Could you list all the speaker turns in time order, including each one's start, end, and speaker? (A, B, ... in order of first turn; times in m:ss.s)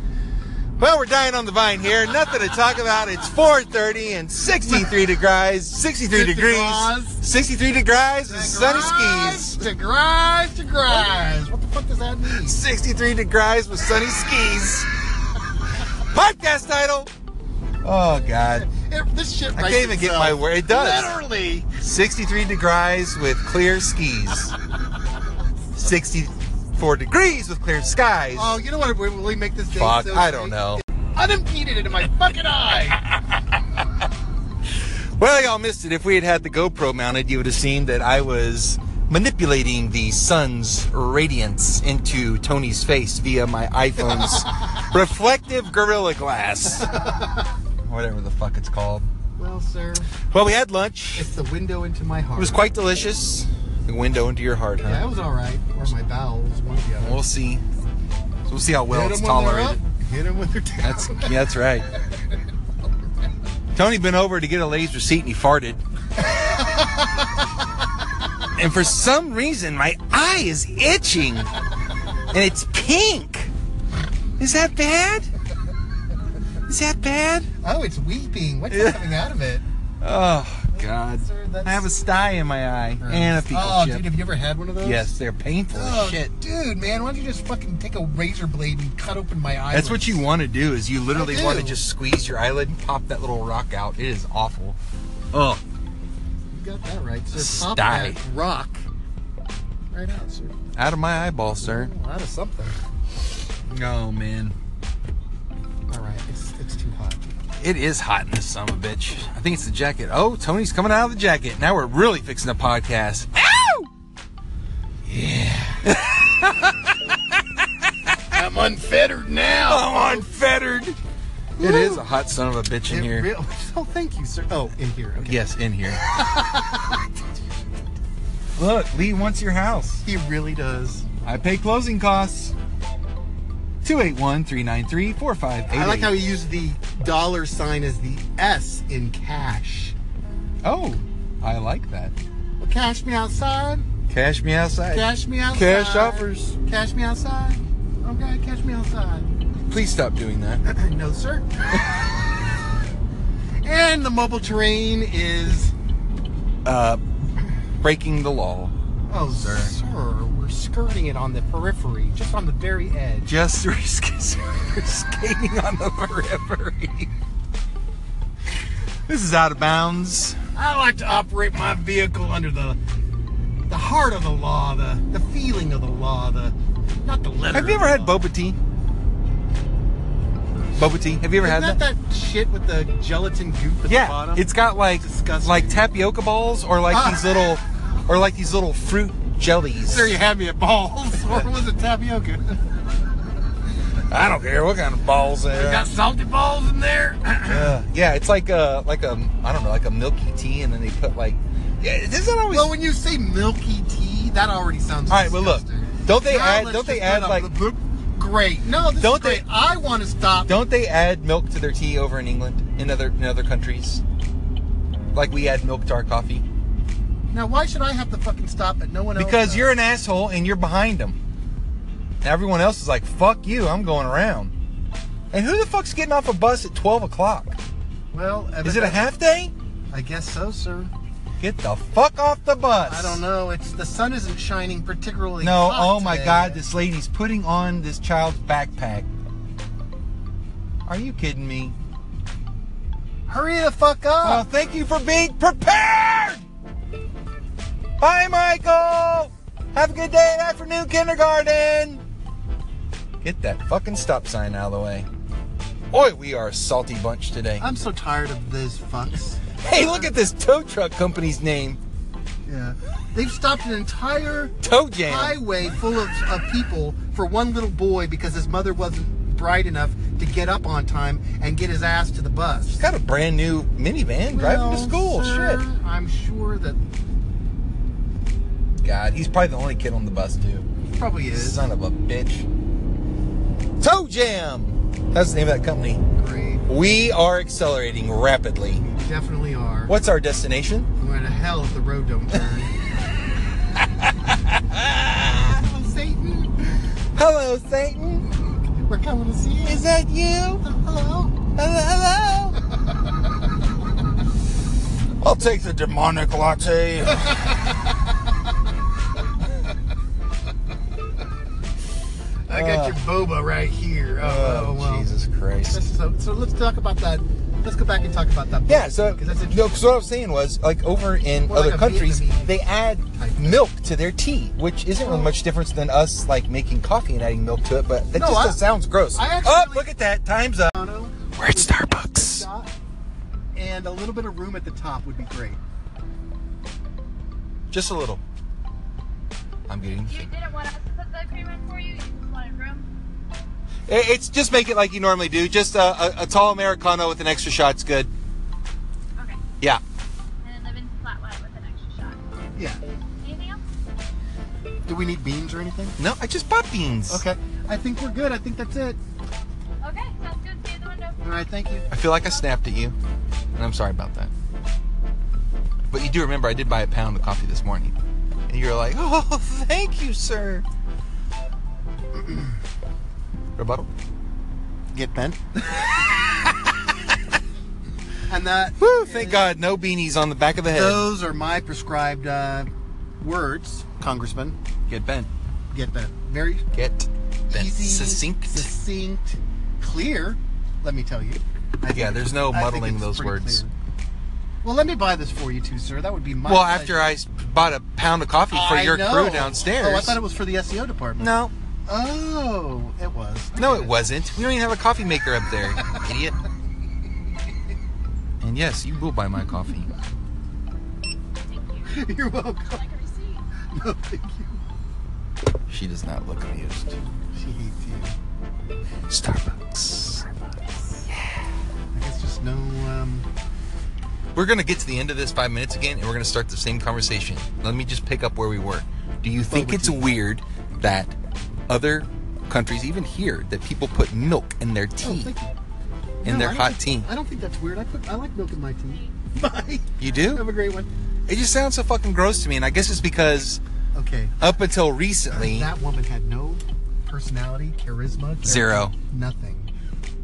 0:00.8-0:09.6 A
0:04.6-0:04.9 B
0:06.1-0:07.2 B
0:08.2-0:12.6 B
0:10.9-0:11.2 A
0:12.3-0:15.0 A
0:15.8-0:17.1 A
0:17.8-0:18.7 A
0:18.4-0:21.7 B
0:19.5-0:21.2 A
0:21.7-0:24.6 A
0:25.7-0:28.6 A
0:28.3-0:33.0 B
0:29.7-0:30.8 A
0:35.2-0:47.0 A
0:44.2-0:44.6 B
0:46.8-0:47.5 B
0:47.8-0:49.1 A
0:49.4-0:50.1 B
0:50.3-0:51.3 A
0:51.1-0:52.6 B
0:52.4-0:55.1 A
0:54.8-0:57.2 B
0:57.0-0:57.6 A
0:58.4-0:59.8 A
0:58.9-1:01.4 B
1:00.8-1:01.9 A
1:03.7-1:05.8 A
1:06.3-1:07.3 B
1:08.6-1:11.5 A
1:12.3-1:13.5 A
1:14.4-1:15.3 A
1:16.7-1:17.5 A
1:17.6-1:19.6 B
1:18.7-1:19.1 A
1:20.0-1:24.1 A
1:20.7-1:21.9 B
1:23.0-1:25.1 B
1:24.8-1:26.3 A
1:25.7-1:30.2 B
1:29.7-1:34.8 A
1:31.1-1:31.8 B
1:35.3-1:35.6 A
1:36.5-1:38.8 B
1:37.3-1:38.2 A
1:39.9-1:40.6 B
1:40.7-1:41.9 A
1:41.6-1:42.8 B
1:43.7-1:44.5 A
1:45.9-1:47.3 B
1:47.6-1:53.9 A
1:55.0-1:57.4 A
1:58.3-2:00.2 B
1:59.6-2:01.0 A
2:01.6-2:02.0 B
2:01.6-2:03.3 A
2:02.9-2:05.4 B
2:05.2-2:06.0 A
2:05.9-2:07.1 B
2:08.6-2:10.0 A
2:10.0-2:11.1 B
2:11.2-2:12.5 A
2:13.8-2:16.2 A
2:15.7-2:19.9 B
2:20.6-2:22.1 A
2:22.6-2:23.9 B
2:24.1-2:26.6 A
2:24.9-2:29.4 B
2:29.7-2:30.6 A
2:30.6-2:32.1 B
2:33.6-2:35.7 B
2:36.6-2:37.0 A
2:37.8-2:38.7 A
2:39.1-2:43.3 B
2:39.2-2:39.8 A
2:43.2-2:47.1 A
2:49.1-2:50.4 A
2:50.5-2:52.8 B
2:53.7-2:58.2 B
2:57.5-2:58.6 A
3:00.8-3:01.8 A
3:01.3-3:05.8 B
3:03.9-3:10.1 A
3:06.9-3:07.4 B
3:09.8-3:12.6 B
3:11.2-3:11.5 A
3:14.0-3:15.9 A
3:15.5-3:17.8 B
3:17.5-3:22.7 A
3:22.5-3:30.5 B
3:25.1-3:27.5 A
3:29.0-3:29.4 A
3:30.5-3:34.0 A
3:35.1-3:36.4 A
3:37.3-3:39.7 B
3:39.1-3:41.2 A
3:42.2-3:44.5 A
3:45.3-3:47.6 A
3:48.1-3:49.0 B
3:48.6-3:49.5 A
3:49.9-3:50.9 B
3:51.4-3:53.2 A
3:52.8-3:56.6 B
3:55.4-3:59.1 A
4:00.8-4:01.8 A
4:03.3-4:04.4 B
4:04.2-4:06.4 A
4:08.0-4:12.0 A
4:13.2-4:15.1 A
4:15.9-4:17.6 A
4:17.6-4:19.6 B
4:19.6-4:21.8 A
4:22.4-4:24.5 B
4:24.6-4:25.4 A
4:25.0-4:32.8 B
4:32.8-4:35.6 A
4:34.3-4:36.8 B
4:38.8-4:40.6 A
4:40.9-4:41.7 B
4:41.3-4:42.5 A
4:43.8-4:46.0 A
4:46.1-4:46.7 B
4:46.7-4:48.8 A
4:48.7-4:49.9 B
4:49.9-4:50.9 A
4:51.0-4:52.7 B
4:53.8-4:55.4 A
4:55.4-4:56.7 B
4:57.1-4:58.3 A
4:58.5-4:59.9 B
4:59.6-5:00.6 A
5:00.6-5:01.4 B
5:01.5-5:02.6 A
5:05.2-5:07.5 A
5:12.5-5:15.1 B
5:12.5-5:13.0 A
5:14.2-5:15.8 A
5:15.7-5:20.0 B
5:18.7-5:30.7 A
5:21.3-5:22.5 B
5:23.0-5:23.6 B
5:25.0-5:25.3 B
5:28.1-5:28.6 B
5:29.1-5:29.9 B
5:30.7-5:32.7 B
5:31.4-5:32.5 A
5:33.5-5:35.6 B
5:37.7-5:38.2 A
5:39.7-5:40.3 A
5:40.0-5:42.9 C
5:43.9-5:48.1 A
5:49.2-5:49.4 C
5:50.4-5:52.5 C
5:53.2-5:53.6 C
5:54.9-5:56.0 B
5:56.0-5:57.2 A
5:57.1-5:59.0 B
5:59.8-6:01.2 C
6:01.2-6:01.8 B
6:01.9-6:02.9 A
6:02.1-6:02.5 C
6:03.6-6:04.3 A
6:05.9-6:07.9 A
6:08.5-6:10.6 A
6:12.2-6:12.5 B
6:13.6-6:13.9 A
6:14.9-6:15.5 B
6:18.3-6:19.5 B
6:18.8-6:21.1 A
6:20.7-6:22.7 B
6:23.2-6:24.6 B
6:24.9-6:25.3 A
6:25.7-6:26.6 B
6:26.7-6:28.7 A
6:27.5-6:33.7 B
6:31.9-6:33.6 A
6:34.6-6:37.1 B
6:36.4-6:40.2 A
6:38.5-6:41.3 B
6:41.2-6:41.5 A
6:41.9-6:44.0 B
6:43.5-6:46.4 A
6:48.4-6:49.9 A
6:51.4-6:52.0 C
6:51.8-6:52.8 B
6:52.7-6:53.4 C
6:53.7-6:54.6 B
6:55.7-6:57.0 A
6:57.3-6:58.1 B
6:59.1-7:00.3 A
7:01.9-7:03.2 B
7:04.3-7:11.2 A
7:09.4-7:10.2 B
7:11.7-7:15.3 A
7:15.0-7:15.5 B
7:16.2-7:17.1 A
7:16.2-7:20.9 B
7:20.0-7:20.4 A
7:21.3-7:23.6 A
7:23.9-7:24.4 B
7:24.4-7:25.7 A
7:25.3-7:29.7 B
7:28.4-7:29.0 A